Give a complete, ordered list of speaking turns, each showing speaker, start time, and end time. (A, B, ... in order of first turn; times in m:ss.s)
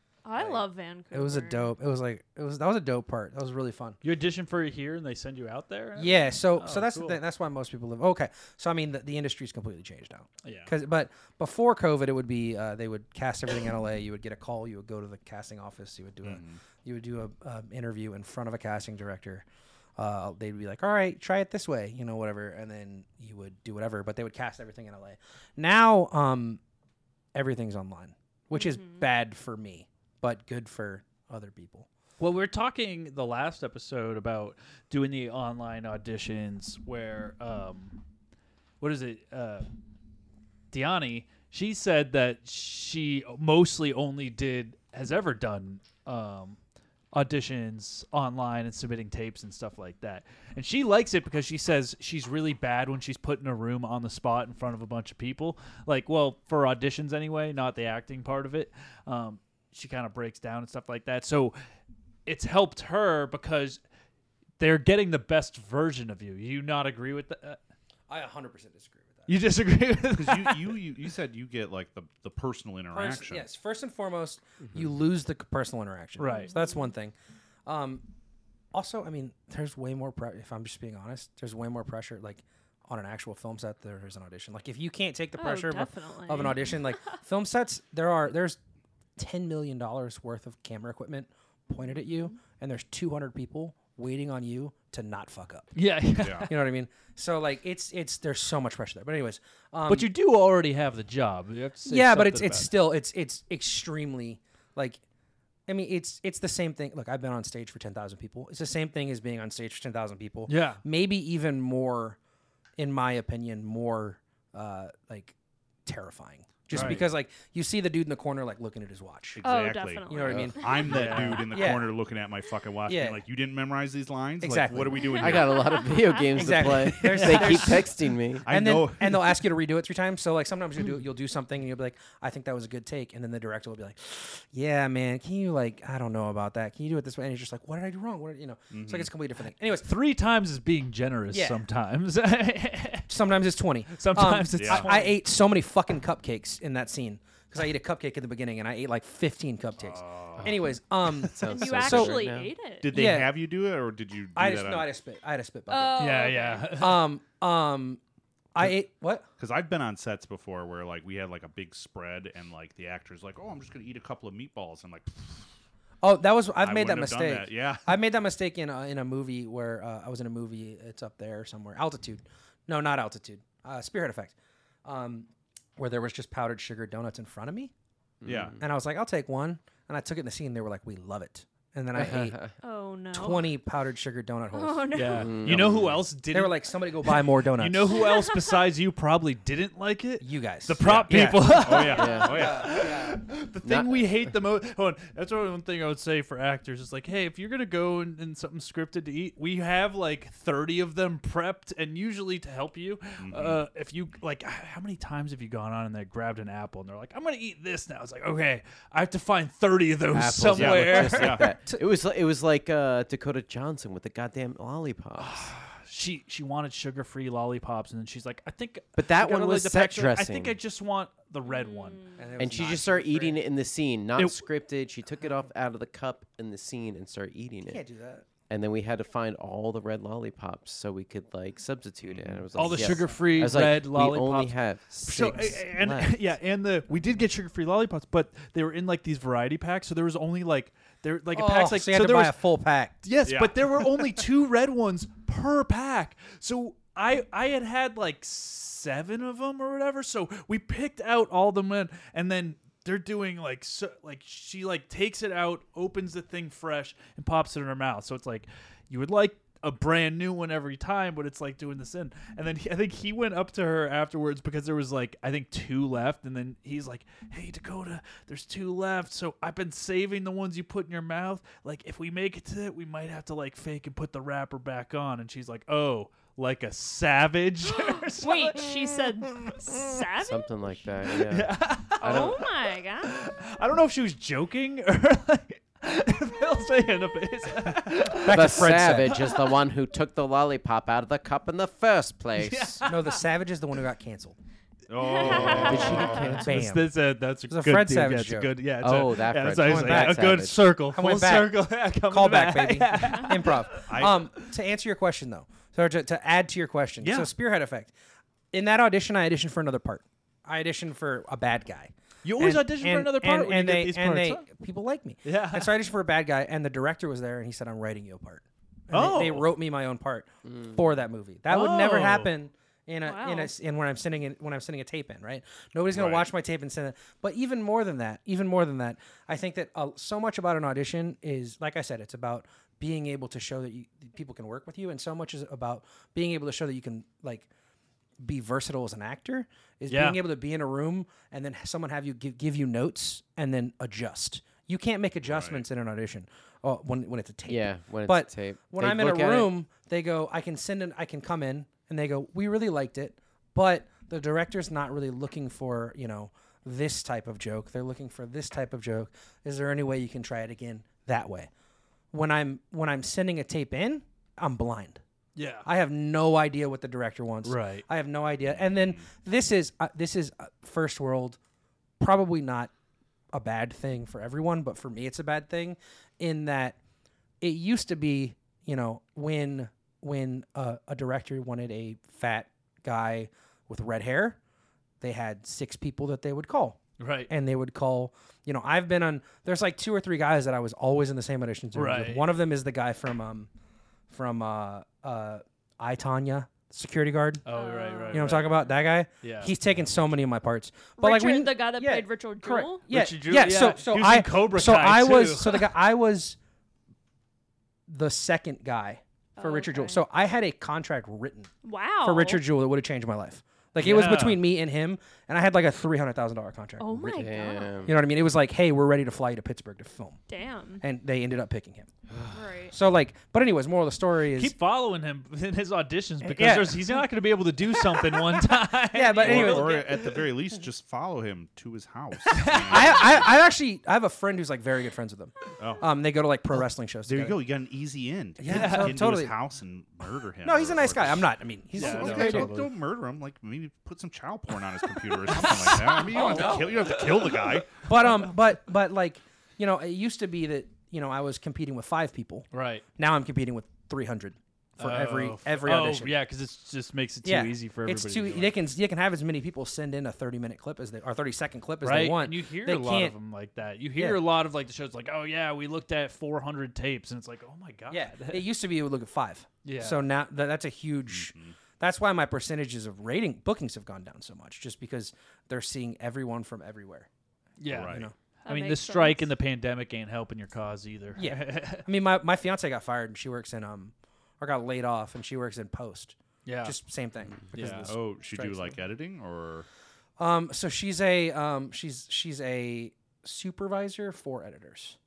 0:00.2-0:01.7 A
0:00.4-0:04.0 B
0:04.0-0:07.2 C
0:06.0-0:19.5 B
0:10.4-0:10.7 C
0:16.2-0:16.6 D
0:20.0-0:26.6 B
0:27.3-0:31.9 B
0:28.5-0:29.0 A
0:32.2-0:38.0 C
0:38.8-0:39.7 C
0:40.7-0:46.6 C
0:47.1-1:01.6 C
1:02.3-1:03.8 C
1:04.6-1:07.6 C
1:08.1-1:09.3 B
1:09.3-1:10.8 C
1:10.1-1:13.5 D
1:12.9-1:17.2 B
1:16.2-1:16.5 C
1:16.2-1:16.9 A
1:17.7-1:18.1 B
1:18.7-1:28.6 B
1:25.4-1:27.0 A
1:29.2-1:35.8 B
1:35.8-1:36.5 C
1:36.2-1:36.5 D
1:36.4-1:40.1 B
1:39.9-1:42.8 C
1:41.9-1:45.0 B
1:45.7-1:52.2 B
1:50.5-1:50.8 C
1:52.8-1:59.4 B
1:56.7-1:57.1 C
1:59.4-2:05.8 D
1:59.4-2:01.2 A
2:00.1-2:01.9 B
2:00.9-2:01.4 C
2:02.9-2:03.2 B
2:04.4-2:05.4 B
2:05.1-2:06.3 A
2:05.2-2:08.5 E
2:06.3-2:19.9 B
2:07.1-2:07.6 C
2:08.4-2:09.4 D
2:18.7-2:19.1 D
2:19.8-2:23.1 C
2:21.3-2:21.6 B
2:23.1-2:32.2 B
2:23.9-2:25.2 C
2:24.6-2:24.9 D
2:29.8-2:30.5 D
2:31.2-2:32.5 E
2:31.5-2:32.9 A
2:32.8-2:34.9 D
2:32.9-2:33.4 B
2:34.4-2:38.0 B
2:35.7-2:36.7 A
2:36.0-2:37.1 C
2:38.6-2:39.3 B
2:39.4-2:45.5 D
2:46.0-2:54.3 B
2:46.6-2:48.0 D
2:54.8-2:57.7 B
2:58.2-2:58.6 E
2:58.2-2:58.6 D
2:58.6-3:02.5 B
3:02.0-3:02.5 E
3:02.6-3:03.5 A
3:03.1-3:05.1 B
3:04.5-3:05.3 A
3:04.9-3:31.4 C
3:05.1-3:06.0 E
3:05.6-3:06.0 D
3:06.3-3:08.0 B
3:10.2-3:13.2 B
3:10.8-3:12.8 D
3:11.9-3:12.3 A
3:12.0-3:12.4 E
3:13.6-3:14.3 E
3:23.2-3:23.6 D
3:30.1-3:35.5 E
3:30.5-3:31.6 D
3:30.9-3:31.8 B
3:35.2-3:42.0 C
3:39.0-3:40.6 E
3:41.4-3:42.3 A
3:42.2-3:43.4 B
3:42.4-3:47.8 E
3:44.2-3:44.4 C
3:47.6-3:48.3 B
3:48.5-3:56.2 E
3:52.1-3:52.9 D
3:52.6-4:02.4 C
4:01.3-4:03.0 B
4:03.0-4:38.7 C
4:03.2-4:04.2 D
4:37.8-4:40.8 A
4:39.4-4:39.8 C
4:40.2-4:42.4 E
4:41.3-4:42.5 C
4:42.0-4:43.1 A
4:43.0-4:49.2 C
4:48.2-4:49.4 B
4:48.3-4:52.9 E
4:52.4-4:53.2 C
4:52.8-4:54.4 B
4:54.9-4:56.4 D
4:55.2-4:56.0 A
4:55.3-4:57.0 B
4:55.4-5:04.1 C
4:55.8-4:56.1 E
4:57.5-4:58.5 B
4:58.8-5:00.6 E
4:59.6-5:07.9 B
5:03.9-5:04.3 D
5:07.0-5:07.3 C
5:08.5-5:37.5 B
5:12.2-5:14.4 C
5:15.2-5:15.8 C
5:18.9-5:19.5 C
5:20.5-5:20.8 E
5:21.5-5:22.3 C
5:23.0-5:23.5 A
5:25.9-5:26.3 D
5:38.2-6:01.5 B
5:39.9-5:40.2 C
5:45.3-5:45.6 D
5:47.5-5:49.5 E
6:02.1-6:05.0 B
6:05.4-6:05.7 C
6:05.6-6:11.4 B
6:07.4-6:07.9 C
6:08.5-6:09.1 D
6:12.0-6:12.7 B
6:13.3-6:16.8 B
6:17.4-6:24.4 B
6:25.0-6:33.5 B
6:27.0-6:27.3 C
6:31.8-6:32.3 C
6:34.1-6:37.5 B
6:37.5-6:38.6 C
6:37.5-6:38.3 A
6:38.1-6:46.4 B
6:39.2-6:39.5 C
6:41.0-6:42.8 A
6:42.9-6:45.7 C
6:47.9-6:57.3 B
6:49.4-6:50.0 A
6:51.6-6:52.4 A
6:53.8-6:54.4 C
6:56.8-6:57.8 A
6:57.0-6:58.0 E
6:57.8-7:00.2 B
7:00.3-7:00.8 A
7:00.8-7:01.9 B
7:02.3-7:02.8 A
7:02.7-7:04.6 B
7:04.4-7:09.8 C
7:06.2-7:07.0 B
7:08.9-7:09.9 B
7:09.2-7:13.4 D
7:12.3-7:12.9 C
7:12.7-7:17.4 B
7:15.6-7:15.9 D
7:17.1-7:27.8 D
7:18.4-7:19.4 B
7:18.5-7:19.0 C
7:20.4-7:22.5 B
7:21.8-7:22.7 C
7:25.0-7:27.6 C
7:26.2-7:26.6 B
7:27.8-7:36.2 B
7:32.5-7:32.8 C
7:34.8-7:38.5 C
7:37.2-7:43.2 B
7:41.8-7:48.4 C
7:44.0-7:44.2 B
7:47.9-7:57.1 B
7:49.6-7:50.0 C
7:51.1-7:51.6 D
7:57.6-8:01.9 C
7:57.7-7:58.1 D
7:57.7-7:58.1 B
7:58.4-7:59.3 A
8:01.2-8:08.8 B
8:06.5-8:06.8 C
8:07.5-8:07.9 C
8:07.7-8:09.7 D
8:10.2-8:15.0 B